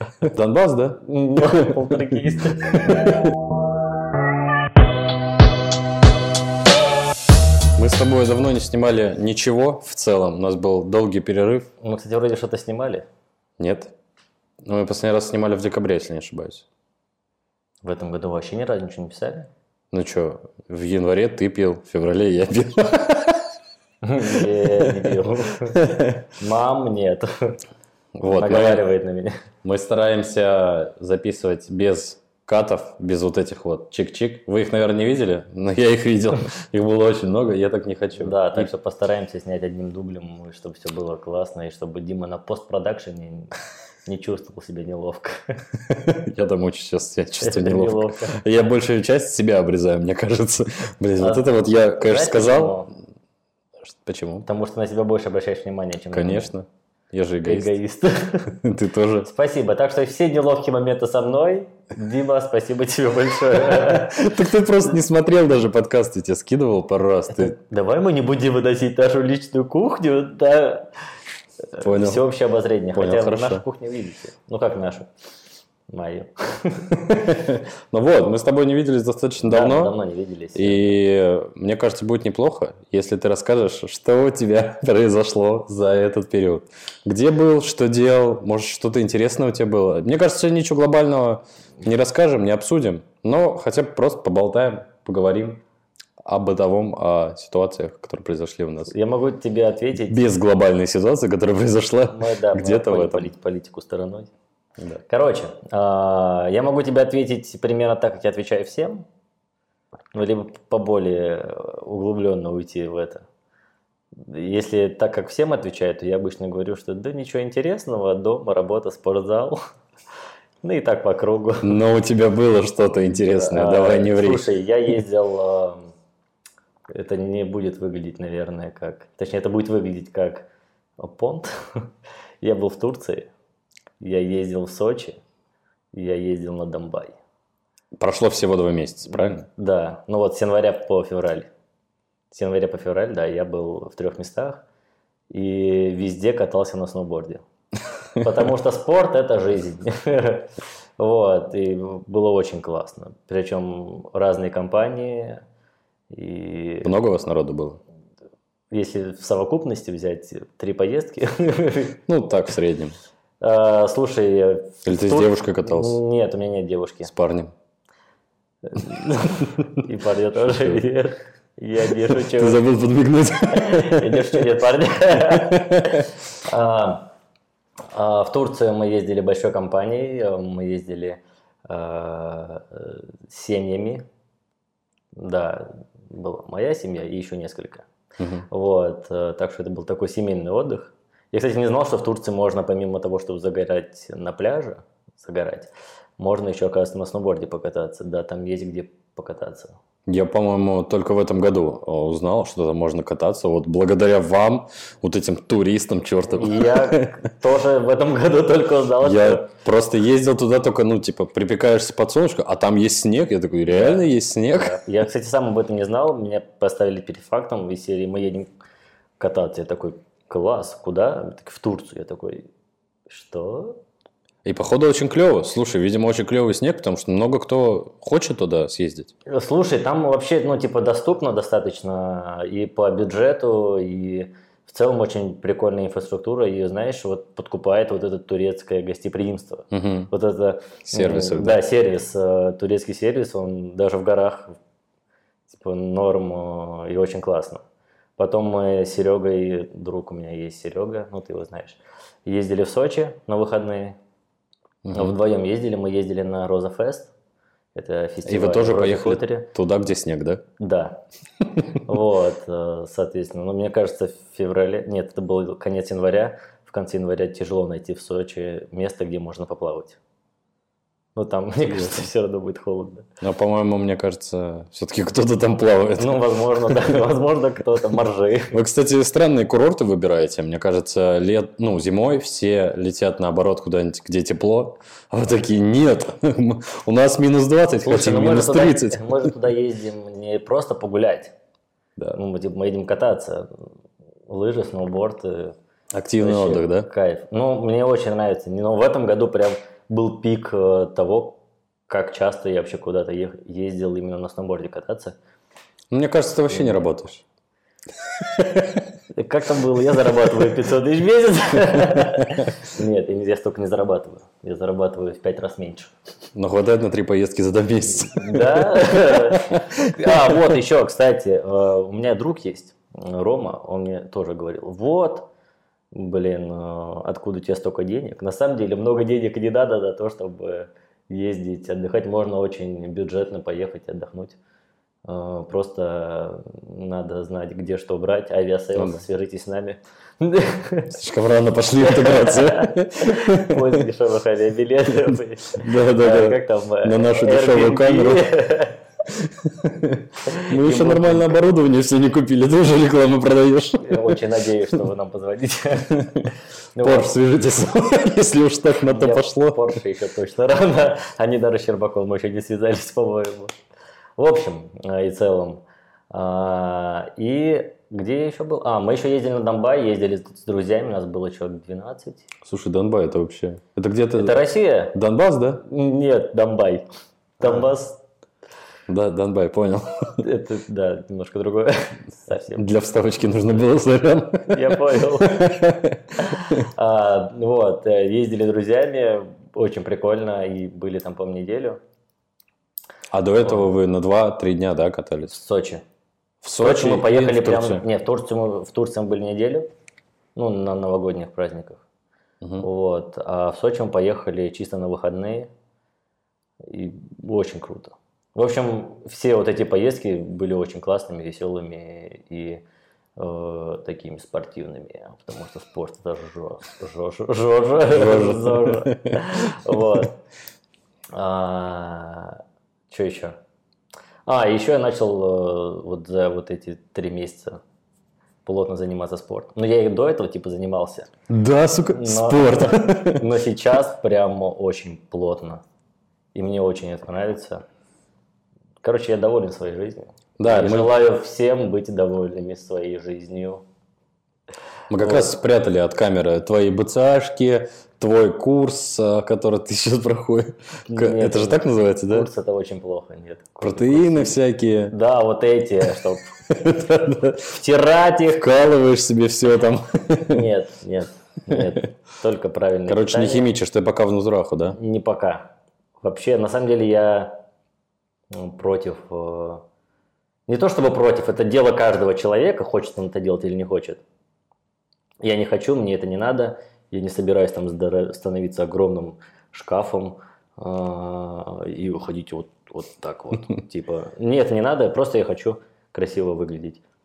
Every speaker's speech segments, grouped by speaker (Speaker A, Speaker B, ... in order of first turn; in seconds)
Speaker A: 0.2-1.7, 7.8-11.7, 13.6-13.9, 14.6-16.6, 19.9-23.5, 24.8-25.1, 25.7-26.2, 28.2-28.8, 29.6-38.7, 45.9-52.8, 53.8-54.5, 56.1-57.7, 58.6-59.3, 63.7-67.5, 71.8-72.2, 72.9-73.6, 77.1-79.9, 80.5-95.6, 96.2-98.9, 100.1-103.3, 121.6-124.5, 138.0-139.4, 156.8-157.8, 162.1-162.9, 164.8-166.0, 167.1-167.5, 172.2-174.4, 175.2-176.0, 188.2-188.4, 200.1-207.1, 209.0-214.8, 224.4-229.1, 239.7-240.1, 240.8-241.6, 254.8-255.2, 258.2-260.4, 271.7-272.0, 273.2-277.0, 278.5-289.1, 295.9-296.9, 305.9-307.2, 308.4-308.7, 316.3-320.3, 338.8-339.0, 340.9-343.7, 345.6-348.3, 349.1-354.2, 356.0-359.6, 372.4-375.6, 377.4-377.7, 378.9-380.2, 382.6-386.2, 393.1-395.4, 396.4-397.8, 402.4-402.6, 417.9-419.7, 431.3-433.2, 440.4-440.9, 444.9-452.3, 453.6-454.9, 456.5-457.5, 458.4-460.5, 462.9-464.8
Speaker B: 1.0-3.0, 11.8-13.1, 17.8-19.5, 24.0-27.6, 28.3-29.3, 38.2-43.5, 44.1-45.5, 47.4-48.4, 51.2-52.9, 54.4-56.5, 57.4-58.6, 59.2-64.2, 67.3-70.9, 71.7-75.1, 75.9-77.4, 79.4-81.0, 98.9-100.3, 102.1-104.3, 105.1-109.0, 110.1-113.2, 114.2-119.6, 120.6-121.7, 123.3-125.8, 126.9-131.9, 132.4-133.3, 134.0-135.2, 135.9-137.2, 139.1-141.5, 142.3-144.6, 145.3-147.4, 148.2-155.4, 156.1-156.9, 158.7-162.0, 163.4-167.1, 168.7-172.6, 173.5-177.1, 177.9-184.0, 185.2-187.9, 188.5-199.8, 206.3-209.5, 213.7-218.5, 219.2-222.5, 223.1-223.8, 229.3-244.6, 245.5-247.6, 248.2-254.0, 254.9-257.1, 257.7-259.5, 260.6-261.0, 261.7-270.0, 271.1-273.1, 276.0-278.6, 287.8-291.3, 292.1-293.6, 294.3-295.5, 296.2-305.1, 306.5-306.8, 309.1-315.9, 318.1-325.3, 325.9-334.4, 335.1-340.9, 341.8-348.8, 350.2-351.4, 353.8-357.1, 358.8-363.5, 364.2-372.3, 374.1-374.9, 375.6-376.9, 377.4-378.0, 380.2-382.6, 384.5-385.6, 386.2-391.8, 393.4-393.7, 395.3-395.8, 396.6-399.7, 400.3-401.8, 402.6-405.5, 406.6-412.6, 413.2-420.1, 421.1-423.4, 424.2-427.6, 428.4-431.1, 431.9-435.6, 436.3-437.6, 438.8-443.6, 445.0-445.3, 450.9-454.3, 454.9-456.3, 457.4-458.5, 460.2-463.5, 464.7-465.5, 466.0-467.4, 468.3-469.6, 470.5-474.0, 475.2-486.8